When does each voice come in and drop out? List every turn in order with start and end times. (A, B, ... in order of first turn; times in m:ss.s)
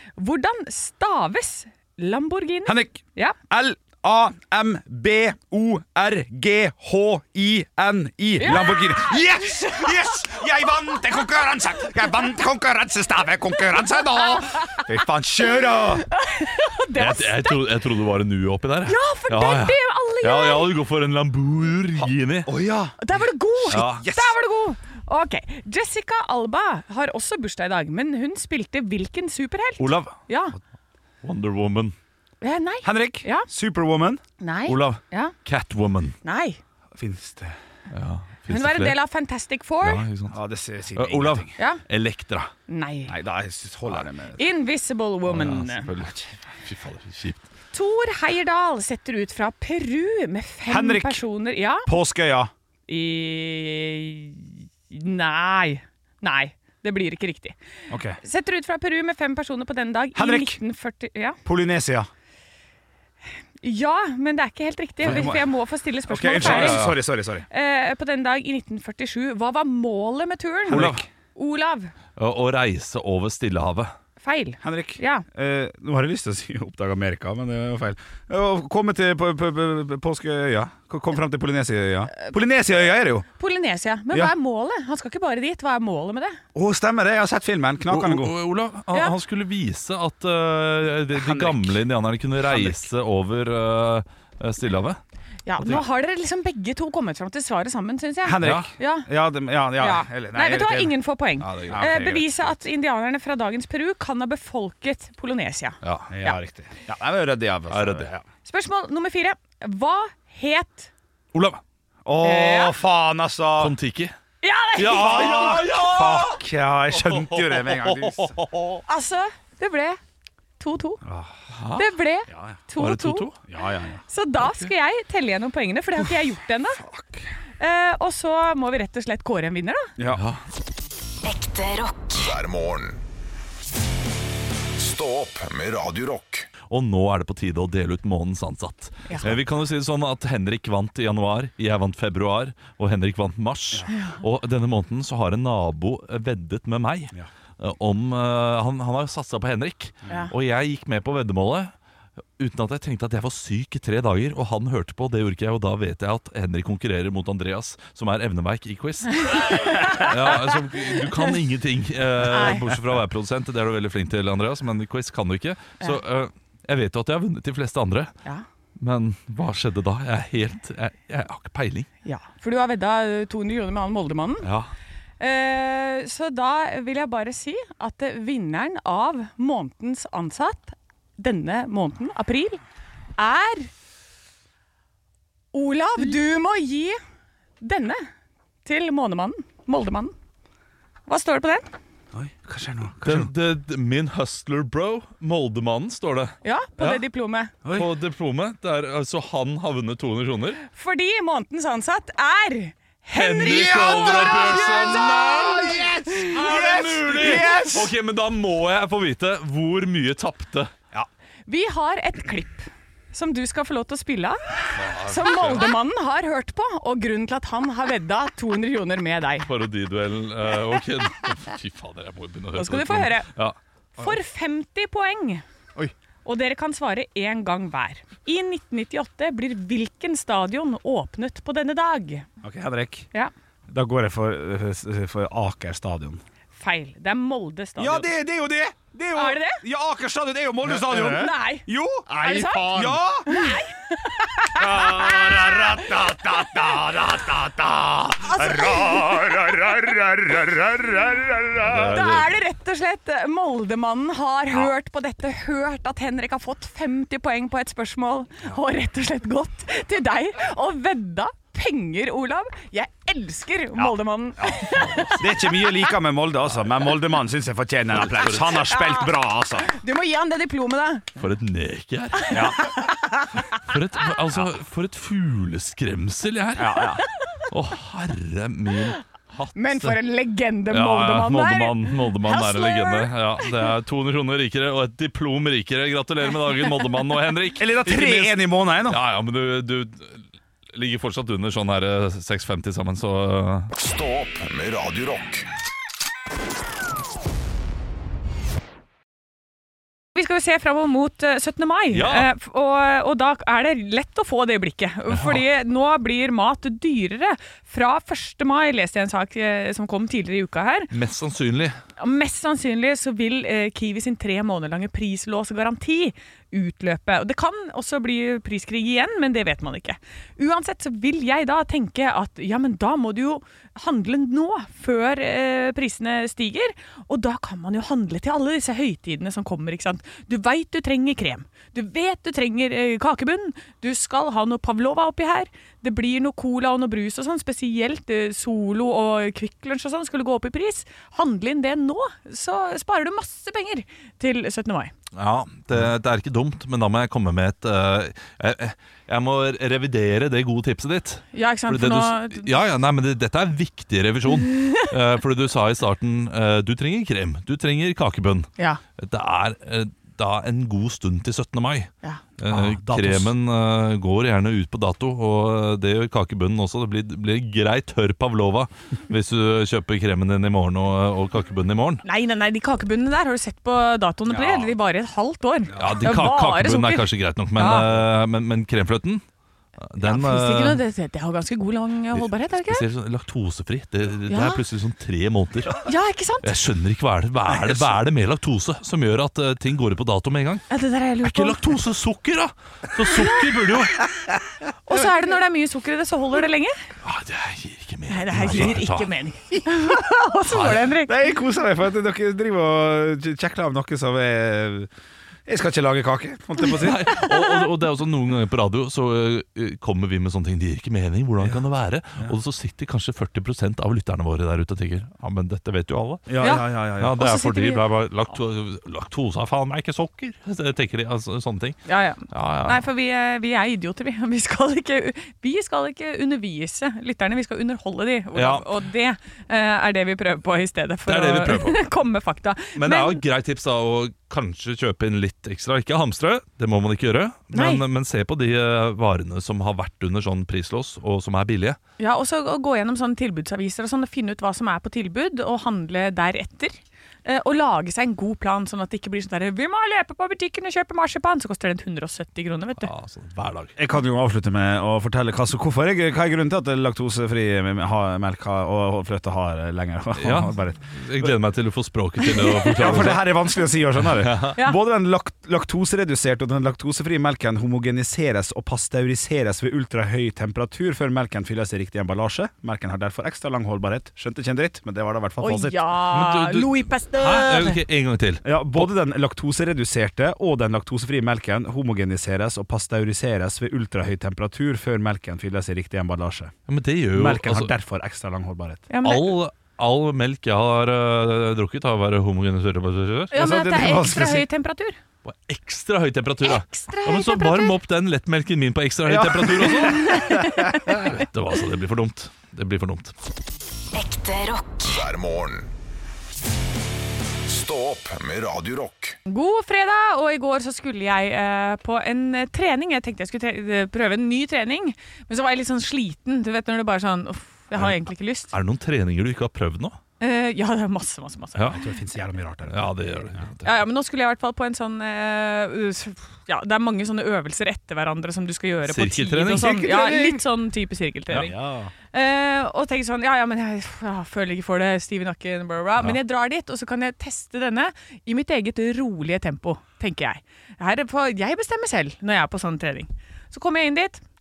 0:00.2-0:03.4 A
0:02.6-0:16.1 B
0:08.4-0:10.0 A
0:14.4-0:14.8 A
0:16.0-0:17.8 A
0:17.0-0:22.5 C
0:18.8-0:20.8 A
0:22.5-0:23.0 B
0:23.0-0:30.6 A
0:23.6-0:24.4 B
0:23.7-0:24.0 C
0:29.8-0:30.2 C
0:31.2-0:32.0 C
0:32.4-0:33.5 A
0:32.8-0:34.2 B
0:34.4-0:35.4 A
0:34.7-0:36.2 C
0:36.2-0:36.6 A
0:37.0-0:37.6 B
0:37.9-0:39.0 C
0:38.5-0:40.0 A
0:39.8-0:40.4 C
0:40.3-0:41.5 B
0:41.0-0:42.5 C
0:41.6-0:41.8 A
0:42.7-0:43.2 A
0:43.1-0:44.4 B
0:44.4-0:45.9 A
0:45.3-0:47.5 C
0:47.7-0:51.9 A
0:50.7-0:51.2 B
0:51.9-0:52.5 B
0:52.9-0:57.6 A
0:57.9-0:58.2 B
0:58.2-1:01.4 A
1:00.2-1:00.6 B
1:01.4-1:02.1 B
1:03.6-1:06.9 A
1:05.0-1:05.4 B
1:05.0-1:05.3 C
1:06.1-1:07.5 B
1:06.4-1:07.0 C
1:07.5-1:11.9 A
1:10.7-1:11.0 B
1:10.7-1:11.0 C
1:12.2-1:13.9 C
1:14.2-1:15.2 A
1:14.6-1:23.3 B
1:23.4-1:26.4 A
1:26.6-1:28.3 B
1:27.9-1:35.0 C
1:31.1-1:31.8 B
1:32.4-1:32.8 B
1:35.5-1:39.1 A
1:38.2-1:41.0 B
1:38.4-1:38.7 C
1:39.8-1:46.4 A
1:41.4-1:42.2 C
1:41.7-1:42.3 B
1:45.8-1:46.1 C
1:46.1-1:48.2 B
1:47.7-1:48.1 C
1:48.4-1:50.9 A
1:51.3-1:51.6 C
1:52.1-1:53.8 B
1:52.2-1:52.8 A
1:53.6-1:54.2 C
1:54.4-1:55.6 A
1:54.8-1:56.4 C
1:54.9-1:58.4 B
1:56.9-1:58.8 C
1:58.9-2:00.0 A
2:00.6-2:01.0 A
2:01.0-2:01.4 B
2:01.5-2:01.9 C
2:01.8-2:03.3 A
2:02.3-2:02.6 B
2:02.8-2:03.4 C
2:03.5-2:04.0 B
2:04.1-2:06.8 A
2:04.4-2:04.7 C
2:06.8-2:07.3 B
2:07.6-2:09.9 A
2:10.0-2:10.2 B
2:10.1-2:10.4 C
2:11.2-2:12.2 D
2:12.2-2:13.0 E
2:14.8-2:16.5 E
2:16.7-2:31.7 C
2:23.9-2:24.2 A
2:32.4-2:48.1 C
2:39.2-2:41.2 A
2:42.3-2:42.8 A
2:48.8-2:51.9 C
2:52.0-2:54.5 A
2:54.4-2:54.7 C
2:55.2-3:02.6 A
3:03.2-3:03.7 A
3:05.5-3:07.0 A
3:07.6-3:08.0 A
3:08.6-3:10.1 A
3:11.1-3:11.7 A
3:12.1-3:13.3 B
3:13.0-3:17.0 C
3:16.4-3:17.5 A
3:17.7-3:20.6 C
3:20.7-3:26.4 A
3:23.1-3:30.7 C
3:23.4-3:27.9 B
3:27.2-3:27.7 A
3:31.5-3:39.5 A
3:34.8-3:35.7 C
3:39.5-3:43.6 C
3:42.6-3:43.3 A
3:44.0-3:45.4 A
3:46.2-3:52.3 A
3:52.4-3:53.1 B
3:53.7-3:56.2 B
3:56.6-3:58.1 A
3:57.8-4:03.6 B
3:59.2-3:59.6 A
4:00.9-4:06.0 A
4:04.4-4:12.0 B
4:08.3-4:09.5 A
4:11.6-4:12.3 C
4:11.7-4:25.5 A
4:23.8-4:24.6 B
4:24.5-4:25.3 C
4:25.2-4:29.7 B
4:28.0-4:28.6 C
4:28.6-4:29.1 A
4:29.6-4:31.1 A
4:31.2-4:32.5 C
4:32.2-4:33.4 A
4:32.3-4:32.6 B
4:33.6-4:36.9 C
4:36.6-4:37.0 B
4:37.5-4:40.0 C
4:39.6-4:43.6 A
4:40.7-4:53.7 C
4:47.6-4:49.0 B
4:53.8-4:55.5 E
5:00.1-5:10.9 A
5:01.9-5:02.3 C
5:05.1-5:05.4 C
5:10.9-5:11.8 C
5:12.0-5:44.9 A
5:45.1-6:12.0 C
5:51.3-5:52.5 A
5:54.5-5:54.8 A
6:02.5-6:03.3 B
6:12.0-6:17.9 A
6:15.8-6:19.2 C
6:19.8-6:20.8 C
6:20.0-6:22.8 A
6:22.1-6:25.8 C
6:24.3-6:24.6 A
6:25.8-6:26.5 A
6:26.4-6:30.7 C
6:30.7-6:31.8 A
6:31.2-6:34.0 C
6:33.1-6:33.7 A
6:34.9-6:36.8 A
6:37.0-6:39.1 C
6:38.1-6:41.2 A
6:38.5-6:38.7 B
6:40.5-6:40.9 C
6:41.1-6:44.9 B
6:45.5-6:47.1 B
6:46.8-6:56.4 C
6:47.2-6:47.7 A
6:56.3-6:57.2 B
6:56.4-6:57.8 A
6:57.0-7:02.8 C
7:01.9-7:13.2 A
7:08.3-7:08.7 C
7:11.1-7:11.8 C
7:12.8-7:21.8 C
7:17.5-7:17.8 A
7:22.0-7:32.9 A
7:32.8-7:33.7 C
7:33.8-7:41.3 B
7:40.2-7:43.3 C
7:42.4-7:42.8 A
7:42.8-7:55.8 B
7:44.1-7:44.6 C
7:55.4-7:57.8 A
7:56.1-7:58.9 C
7:58.4-8:06.5 B
8:06.7-8:07.7 C
8:07.1-8:08.8 B
8:08.9-8:09.3 A
8:09.0-8:13.3 C
8:13.3-8:15.0 A
8:13.3-8:14.4 B
8:15.2-8:20.4 C
8:16.4-8:17.8 A
8:19.1-8:21.0 B
8:19.9-8:21.0 A
8:21.0-8:23.1 C
8:23.9-8:25.0 D
8:24.9-8:25.7 E
8:27.5-8:29.2 E
8:29.3-8:38.5 A
8:38.5-8:40.0 C
8:40.2-8:41.8 A
8:41.7-8:43.4 B
8:42.7-8:43.7 C
8:43.6-8:51.6 A
8:48.9-8:49.8 C
8:49.6-8:50.4 B
8:51.4-8:51.9 B
8:52.1-9:04.2 A